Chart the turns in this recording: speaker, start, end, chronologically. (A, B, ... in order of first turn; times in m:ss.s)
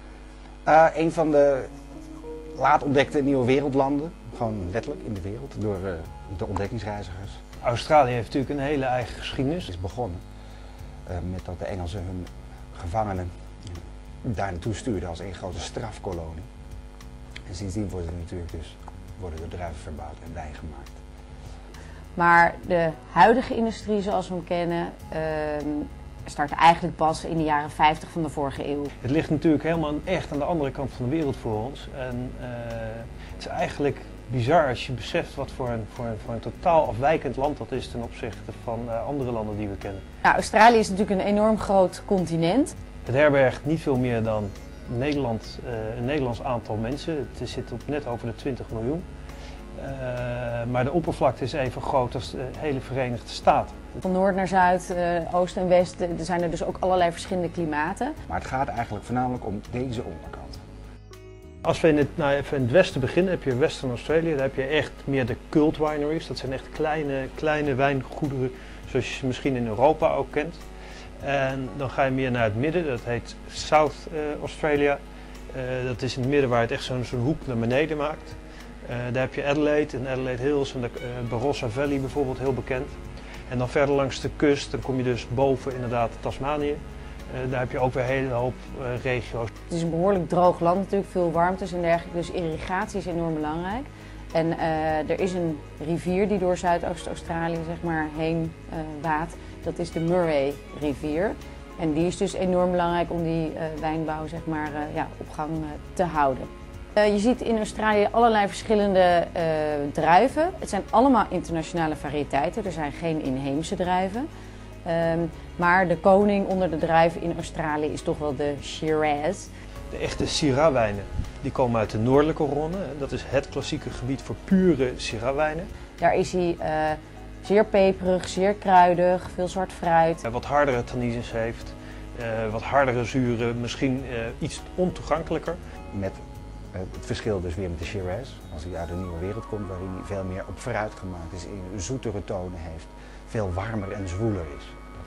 0:00.6-0:01.7 A
0:02.5-0:07.4 A
0:07.6-0:09.7 B
0:09.7-0:10.2 A
0:11.0-0:13.3 A
0:14.2-0:16.5 A
0:17.5-0:21.0 A
0:22.2-0:28.9 C
0:29.0-0:40.0 B
0:40.2-0:42.7 C
0:43.0-0:49.0 B
0:49.8-0:53.8 B
0:54.0-0:58.2 C
0:58.3-1:00.6 A
1:01.6-1:10.6 B
1:11.2-1:23.0 B
1:23.5-1:29.5 B
1:29.7-1:54.3 C
1:54.8-1:59.5 C
1:59.9-2:05.7 B
2:06.0-2:10.2 C
2:10.2-2:15.6 B
2:15.9-2:16.2 A
2:16.7-2:24.7 A